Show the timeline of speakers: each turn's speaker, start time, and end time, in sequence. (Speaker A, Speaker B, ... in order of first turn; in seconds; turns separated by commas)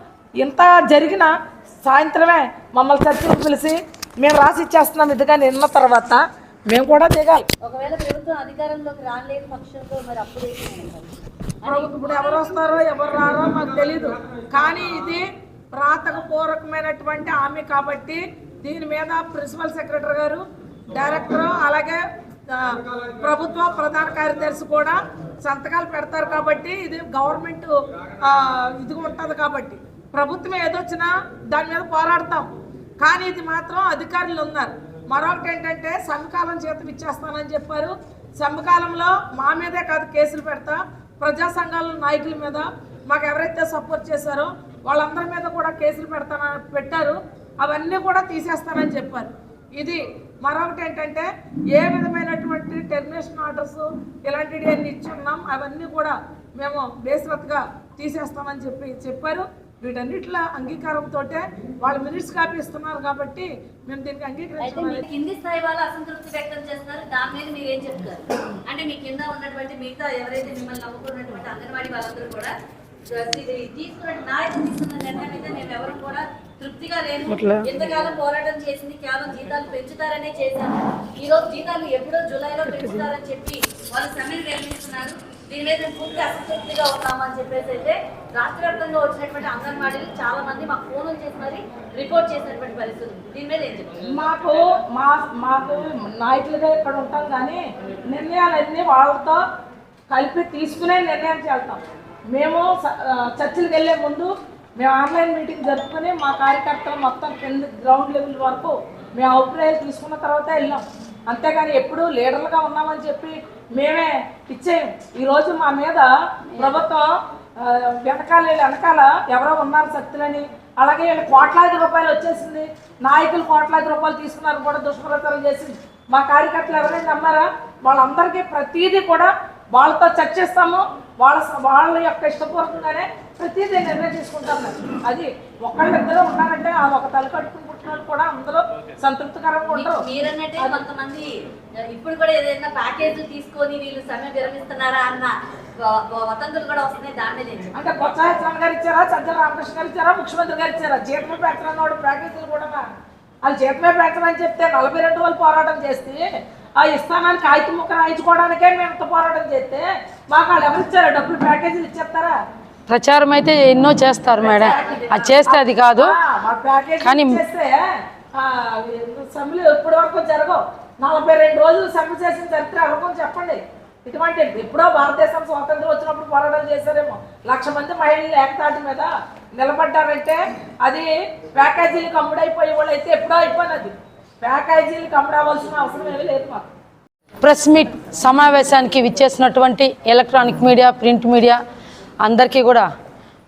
Speaker A: 0.4-7.5, Speaker B: 7.6-12.8, Speaker A: 11.7-65.0, Speaker B: 64.6-72.5, Speaker B: 73.1-93.9, Speaker C: 77.3-77.7, Speaker A: 94.1-99.4, Speaker A: 100.1-140.0, Speaker B: 139.7-147.7, Speaker A: 147.7-152.8, Speaker A: 153.4-156.3, Speaker A: 156.8-162.3, Speaker C: 162.9-166.1, Speaker B: 164.4-165.4, Speaker A: 164.6-164.9, Speaker A: 165.4-186.6, Speaker C: 167.0-167.4, Speaker C: 187.4-191.6, Speaker C: 192.2-192.9